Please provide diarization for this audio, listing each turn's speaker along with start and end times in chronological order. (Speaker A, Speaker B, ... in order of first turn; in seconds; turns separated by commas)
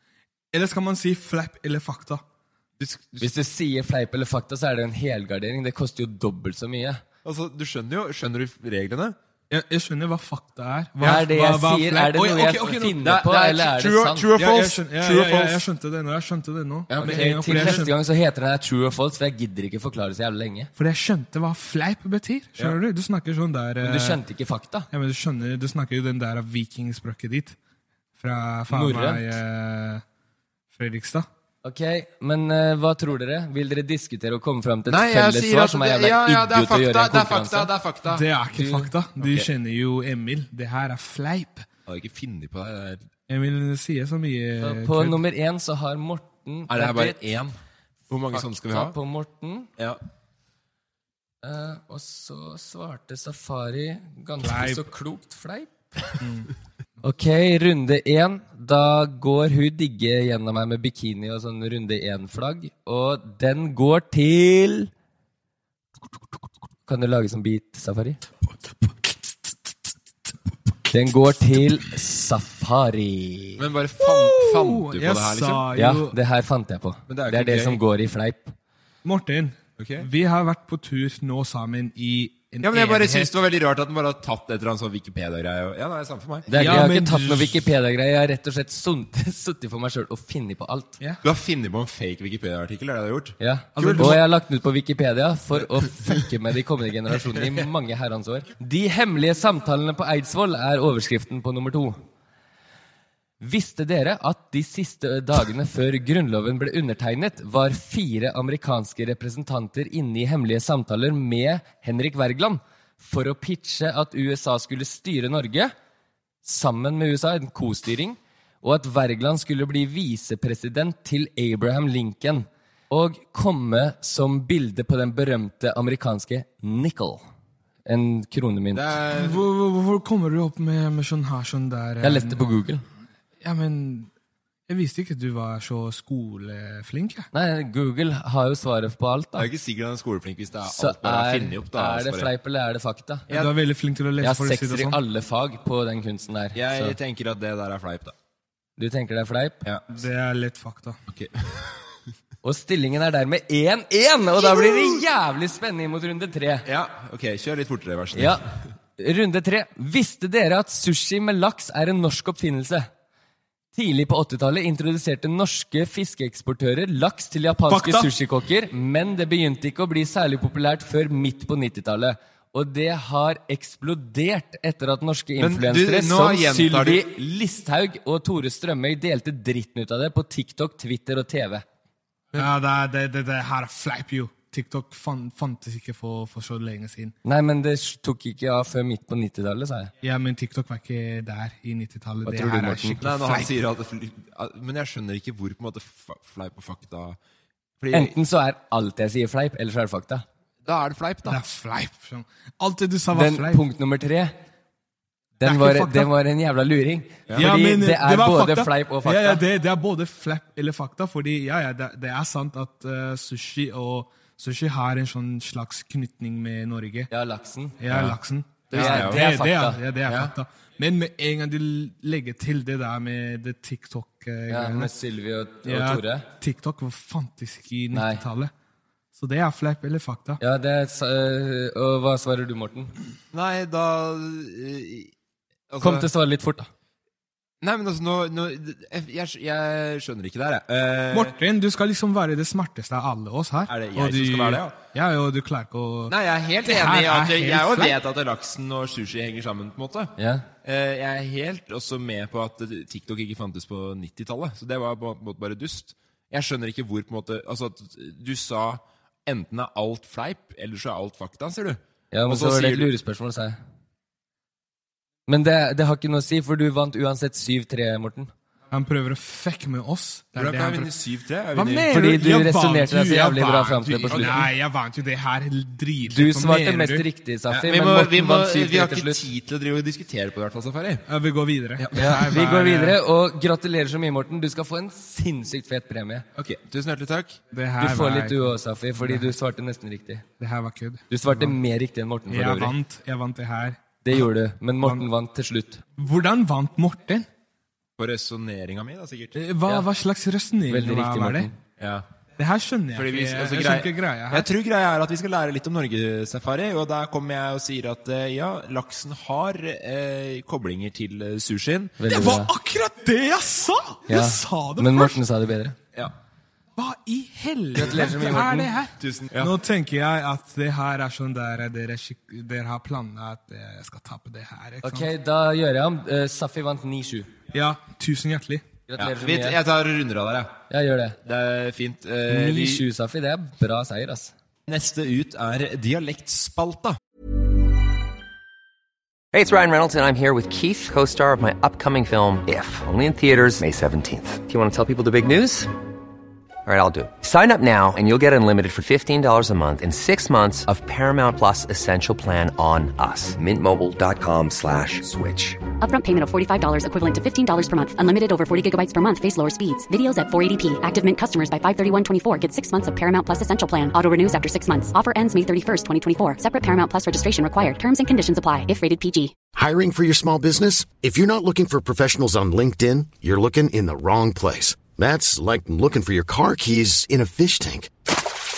Speaker A: 0.5-2.2, Speaker B: 2.8-3.3, Speaker C: 3.2-7.0, Speaker B: 7.2-9.2, Speaker A: 9.5-13.0, Speaker C: 11.0-14.3, Speaker B: 13.0-15.6, Speaker A: 14.3-17.9, Speaker B: 16.9-17.9, Speaker C: 16.9-20.7, Speaker A: 20.8-24.2, Speaker C: 23.8-24.9, Speaker A: 24.9-27.6, Speaker A: 28.2-30.0, Speaker C: 28.7-29.3, Speaker A: 30.7-31.3, Speaker C: 31.6-37.7, Speaker B: 34.9-38.2, Speaker A: 38.1-41.6, Speaker C: 38.6-38.9, Speaker B: 39.2-39.5, Speaker B: 41.9-43.1, Speaker A: 43.3-45.2, Speaker C: 44.6-47.2, Speaker B: 46.7-47.5, Speaker B: 48.1-49.0, Speaker C: 48.3-49.7, Speaker C: 51.4-56.1, Speaker A: 54.4-54.9, Speaker A: 56.2-56.5, Speaker C: 57.0-64.9, Speaker C: 66.9-68.2, Speaker C: 70.9-73.6, Speaker B: 73.6-75.7, Speaker A: 74.0-76.2, Speaker C: 75.7-78.5, Speaker B: 77.1-77.8, Speaker A: 79.0-83.3, Speaker B: 79.8-80.1, Speaker B: 82.6-86.8, Speaker C: 86.5-91.0, Speaker A: 86.5-87.6, Speaker B: 91.2-94.2, Speaker C: 93.4-102.0, Speaker A: 93.7-94.2, Speaker C: 103.4-115.7, Speaker C: 116.4-127.2, Speaker C: 127.8-128.9, Speaker B: 128.7-129.4, Speaker A: 129.2-132.4, Speaker C: 132.0-132.8, Speaker A: 133.4-134.1, Speaker A: 134.7-137.3, Speaker C: 137.3-139.5, Speaker B: 139.3-142.3, Speaker C: 140.7-143.3, Speaker A: 143.3-145.0, Speaker C: 144.2-147.0, Speaker B: 146.5-148.1, Speaker C: 148.8-149.6, Speaker A: 149.9-151.0, Speaker B: 151.1-151.6, Speaker C: 152.4-156.7, Speaker B: 156.7-158.4, Speaker C: 158.1-158.4, Speaker C: 159.0-162.9, Speaker C: 163.7-181.6, Speaker A: 167.7-168.1, Speaker B: 175.4-177.1, Speaker A: 182.3-187.1, Speaker C: 187.2-189.9, Speaker A: 190.0-193.5, Speaker C: 192.2-193.0, Speaker B: 193.0-197.2, Speaker B: 197.8-198.1, Speaker C: 197.9-200.2, Speaker B: 200.6-201.4, Speaker A: 201.2-203.6, Speaker C: 203.1-204.3, Speaker C: 205.4-209.4, Speaker A: 205.4-206.1, Speaker A: 207.3-217.1, Speaker C: 217.1-217.8, Speaker A: 217.8-224.9, Speaker B: 217.9-218.2, Speaker B: 218.7-219.2, Speaker C: 218.7-219.8, Speaker B: 220.1-220.3, Speaker C: 224.5-226.2, Speaker A: 225.6-228.5, Speaker C: 227.9-228.2, Speaker A: 229.2-230.4, Speaker C: 230.4-232.9, Speaker B: 233.3-235.1, Speaker B: 235.7-236.1, Speaker C: 235.8-236.7, Speaker B: 237.6-241.3, Speaker A: 241.1-248.0, Speaker B: 243.7-244.8, Speaker B: 246.1-262.9, Speaker C: 250.2-250.5, Speaker C: 262.1-263.6, Speaker C: 265.3-268.3, Speaker A: 268.7-270.9, Speaker B: 270.4-272.0, Speaker A: 271.5-277.1, Speaker C: 271.9-274.5, Speaker B: 274.1-274.4, Speaker C: 276.1-279.2, Speaker B: 277.5-281.1, Speaker A: 281.1-283.0, Speaker B: 281.8-282.2, Speaker C: 281.9-286.2, Speaker B: 286.4-287.4, Speaker A: 287.5-289.3, Speaker C: 287.8-290.2, Speaker A: 290.4-291.6, Speaker C: 291.1-292.7, Speaker A: 292.3-294.2, Speaker C: 294.0-295.8, Speaker A: 296.0-297.3, Speaker B: 298.0-299.4, Speaker A: 299.3-301.5, Speaker C: 300.7-301.5, Speaker B: 301.8-302.0, Speaker A: 302.4-304.5, Speaker B: 302.9-311.9, Speaker C: 312.0-312.5, Speaker A: 312.1-315.2, Speaker C: 314.1-315.8, Speaker A: 316.8-325.1, Speaker C: 317.7-318.7, Speaker B: 319.0-319.5, Speaker C: 324.8-327.3, Speaker A: 327.5-328.6, Speaker C: 328.9-329.6, Speaker B: 329.0-330.6, Speaker C: 330.7-331.2, Speaker B: 331.2-332.8, Speaker C: 332.3-334.3, Speaker B: 334.7-337.0, Speaker D: 339.3-345.7, Speaker D: 346.6-355.6, Speaker E: 355.8-369.3, Speaker F: 369.5-377.9